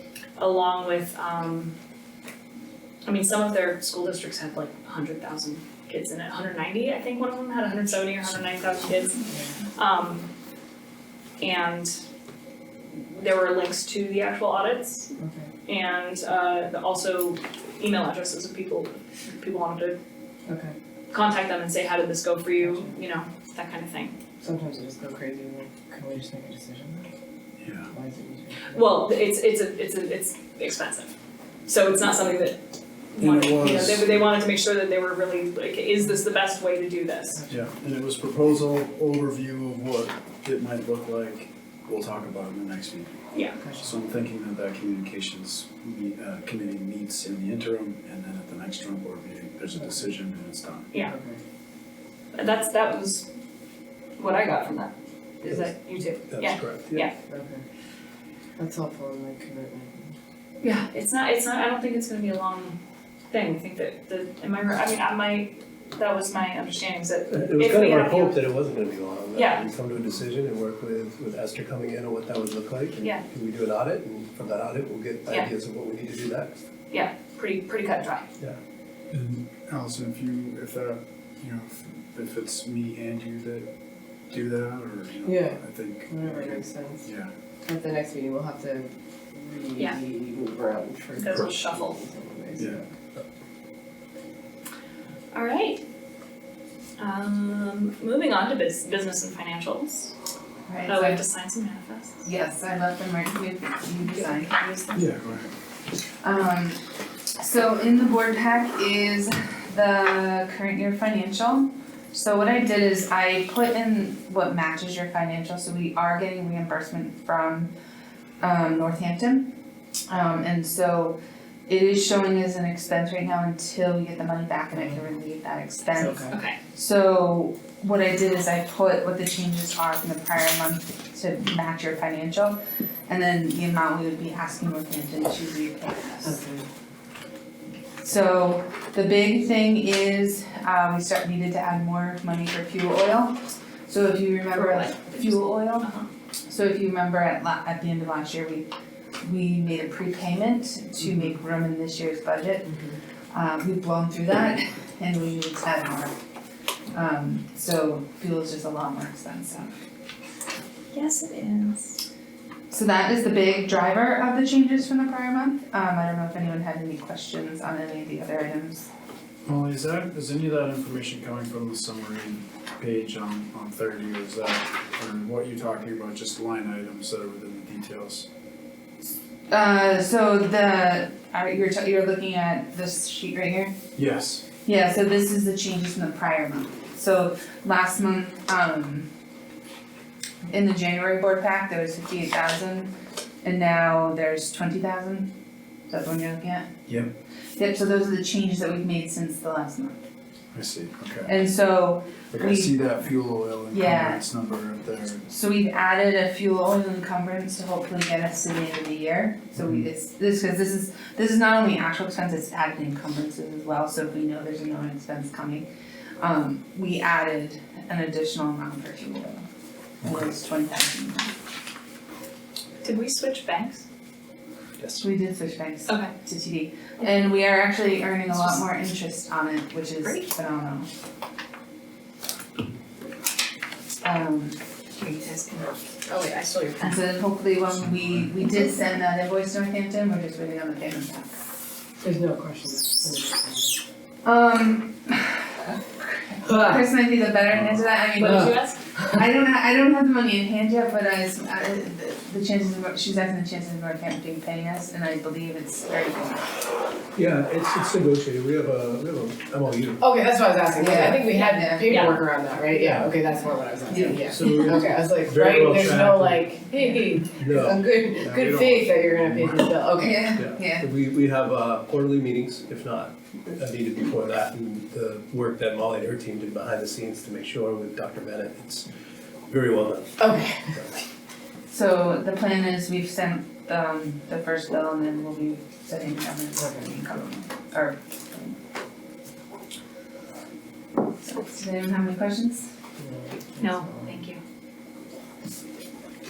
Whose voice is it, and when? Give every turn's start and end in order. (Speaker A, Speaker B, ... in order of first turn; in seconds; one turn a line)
Speaker A: 0.4-1.7
Speaker A: 3.0-10.3
Speaker A: 11.4-11.9
Speaker A: 12.9-15.1
Speaker A: 15.7-20.0
Speaker A: 21.1-24.1
Speaker B: 24.4-27.1
Speaker C: 27.6-27.9
Speaker B: 27.9-28.8
Speaker A: 28.7-31.1
Speaker A: 31.7-37.4
Speaker C: 33.2-34.2
Speaker C: 37.5-43.1
Speaker A: 43.3-43.6
Speaker C: 43.8-50.9
Speaker B: 51.0-51.4
Speaker A: 52.3-53.3
Speaker A: 54.2-57.1
Speaker D: 56.3-57.1
Speaker B: 57.3-57.6
Speaker B: 58.6-59.9
Speaker A: 60.6-62.8
Speaker A: 63.3-68.4
Speaker D: 67.3-76.6
Speaker A: 69.3-69.7
Speaker A: 76.9-78.2
Speaker C: 79.1-83.7
Speaker C: 84.3-87.3
Speaker B: 85.2-85.6
Speaker B: 86.1-87.0
Speaker B: 87.7-92.8
Speaker D: 87.8-88.5
Speaker A: 91.2-92.0
Speaker D: 91.2-91.5
Speaker A: 95.3-95.8
Speaker A: 97.0-100.1
Speaker E: 100.7-101.2
Speaker A: 100.9-102.3
Speaker E: 102.2-104.6
Speaker A: 104.0-105.1
Speaker C: 104.9-105.5
Speaker E: 106.2-106.8
Speaker E: 107.4-117.7
Speaker E: 118.4-119.5
Speaker E: 120.1-136.4
Speaker B: 126.0-126.3
Speaker A: 126.3-126.6
Speaker B: 136.3-136.6
Speaker E: 138.0-145.9
Speaker A: 144.5-146.1
Speaker E: 146.5-148.7
Speaker E: 149.2-152.7
Speaker E: 153.3-156.1
Speaker E: 156.9-159.8
Speaker A: 160.9-162.0
Speaker E: 162.7-168.9
Speaker C: 169.4-178.3
Speaker E: 179.5-183.8
Speaker C: 183.9-184.5
Speaker E: 184.6-189.1
Speaker E: 190.5-195.3
Speaker E: 195.9-196.7
Speaker C: 196.9-197.1
Speaker E: 197.6-200.0
Speaker C: 200.5-201.3
Speaker E: 201.2-202.9
Speaker C: 202.3-205.2
Speaker E: 203.7-204.3
Speaker E: 205.3-215.7
Speaker E: 216.2-219.4
Speaker E: 220.0-221.3
Speaker A: 222.8-223.8
Speaker E: 225.0-230.9
Speaker A: 228.3-228.6
Speaker E: 234.0-234.6
Speaker A: 235.0-237.0
Speaker E: 236.8-241.4
Speaker D: 242.0-242.9
Speaker B: 242.1-243.7
Speaker E: 244.2-248.4
Speaker A: 248.2-248.9
Speaker E: 249.1-256.6
Speaker D: 257.1-261.0
Speaker B: 260.0-270.2
Speaker E: 260.8-261.9
Speaker D: 261.7-278.9
Speaker A: 261.9-262.2
Speaker E: 263.9-264.8
Speaker E: 270.0-270.9
Speaker D: 279.5-281.0
Speaker B: 280.2-280.7
Speaker E: 281.7-288.6
Speaker E: 291.2-292.7
Speaker B: 293.0-294.1
Speaker A: 293.6-294.4